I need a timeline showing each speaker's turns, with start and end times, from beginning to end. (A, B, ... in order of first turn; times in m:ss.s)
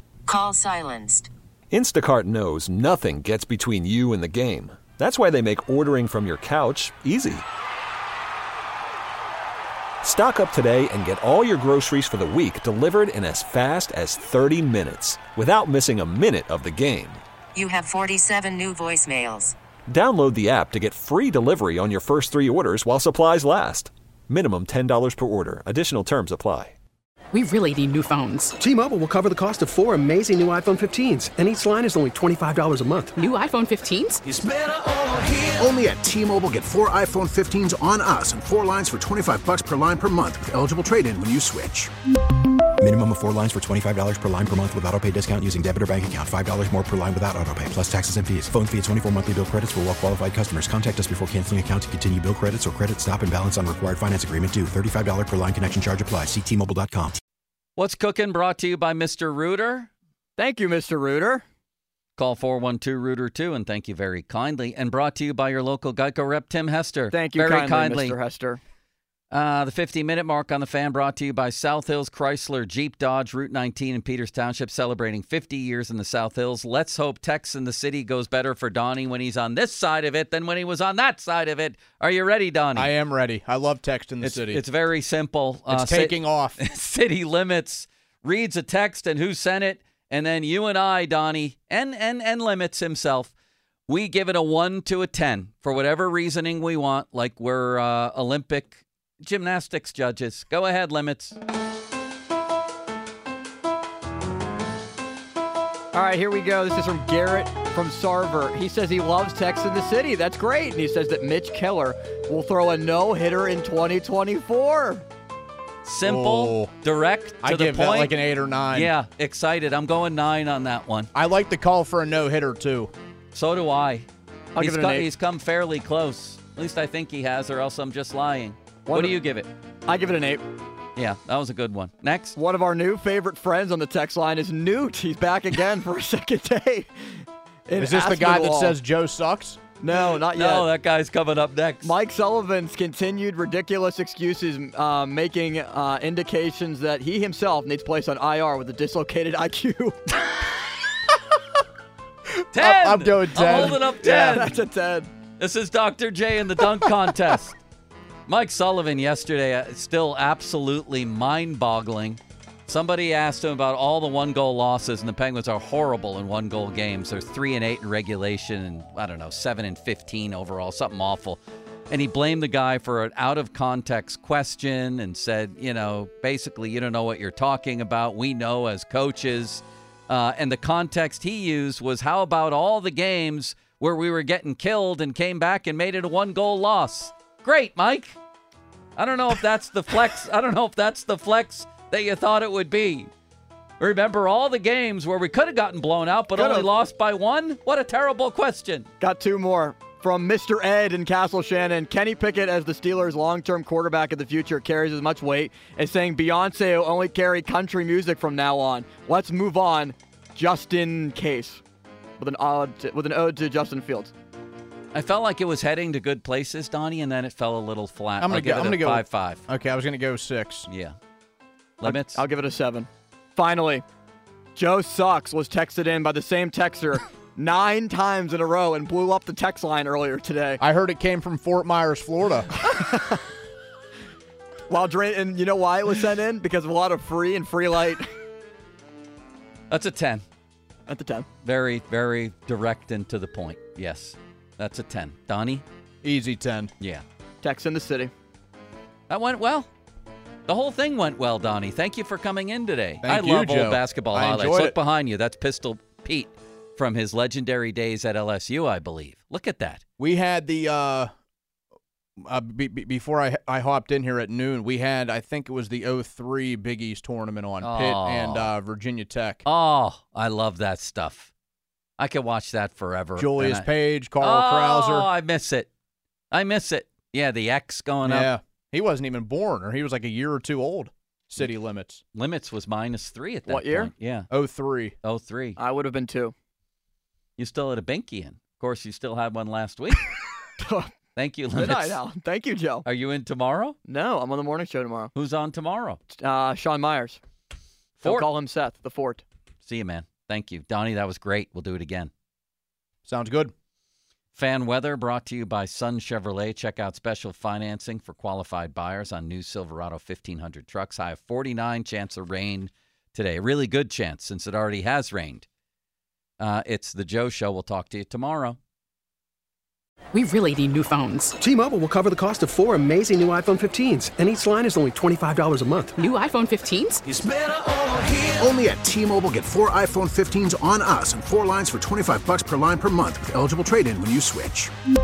0:00.3-0:01.3 A
0:01.7-0:07.4 B
0:10.0-0:17.2 B
0:17.5-0:19.5 A
0:19.9-0:26.7 B
0:27.3-0:28.5 C
0:28.6-0:33.2 D
0:33.2-0:34.2 C
0:34.3-0:41.9 E
0:42.8-0:57.2 F
0:57.8-0:59.9 G
1:00.4-1:01.4 H
1:02.2-1:08.2 G
1:07.1-1:08.6 H
1:09.3-1:22.9 G
1:22.7-1:24.6 I
1:24.2-1:33.3 G
1:25.7-1:26.6 I
1:33.9-1:41.4 G
1:45.9-1:55.0 H
1:55.8-1:58.2 G
1:56.0-1:56.7 I
1:57.4-1:58.9 I
1:58.7-2:01.1 G
2:01.1-2:02.9 I
2:03.3-2:09.5 G
2:04.5-2:05.1 H
2:08.8-2:09.2 H
2:09.8-2:10.4 H
2:11.0-2:12.4 G
2:12.4-2:18.8 H
2:17.8-2:19.6 I
2:19.8-2:20.7 H
2:20.3-2:21.9 G
2:21.8-2:30.2 H
2:32.5-2:34.5 G
2:32.5-2:33.9 I
2:33.5-2:35.1 H
2:35.4-2:37.6 G
2:38.3-3:08.2 G
3:09.0-3:13.1 G
3:13.8-3:18.9 G
3:16.3-3:16.7 H
3:19.0-3:31.6 H
3:32.2-3:34.1 H
3:34.9-3:39.4 G
3:38.2-3:40.7 I
3:40.7-3:40.9 G
3:41.8-3:42.2 G
3:41.8-3:43.8 H
3:44.6-3:50.6 H
3:50.6-3:52.5 I
3:52.5-3:53.2 H
3:54.7-3:58.1 H
3:59.7-4:00.2 G
4:00.9-4:01.3 H
4:01.4-4:05.6 G
4:06.0-4:06.7 I
4:07.4-4:08.1 H
4:09.1-4:09.7 G
4:10.5-4:19.8 G
4:13.0-4:14.8 I
4:20.0-4:21.1 I
4:22.2-4:29.4 I
4:27.6-4:28.5 G
4:29.4-4:31.3 G
4:32.0-4:35.7 G
4:33.2-4:35.1 I
4:36.3-4:38.3 G
4:38.0-4:42.0 I
4:42.1-4:44.3 G
4:43.5-4:43.9 H
4:44.3-4:45.0 I
4:45.0-4:45.6 G
4:45.6-4:46.3 H
4:47.4-4:50.1 G
4:50.6-4:50.9 H
4:51.1-4:52.0 G
4:51.5-4:52.8 H
4:52.8-4:53.8 G
4:53.8-4:55.1 H
4:55.1-4:56.0 G
4:56.1-4:57.2 H
4:58.0-4:58.2 G
4:58.0-4:59.2 H
4:59.6-5:02.1 G
5:03.0-5:03.5 I
5:04.3-5:15.5 G
5:16.4-5:18.6 G
5:20.1-5:21.3 C
5:21.4-5:26.0 D
5:26.0-5:27.0 C
5:27.1-5:34.7 E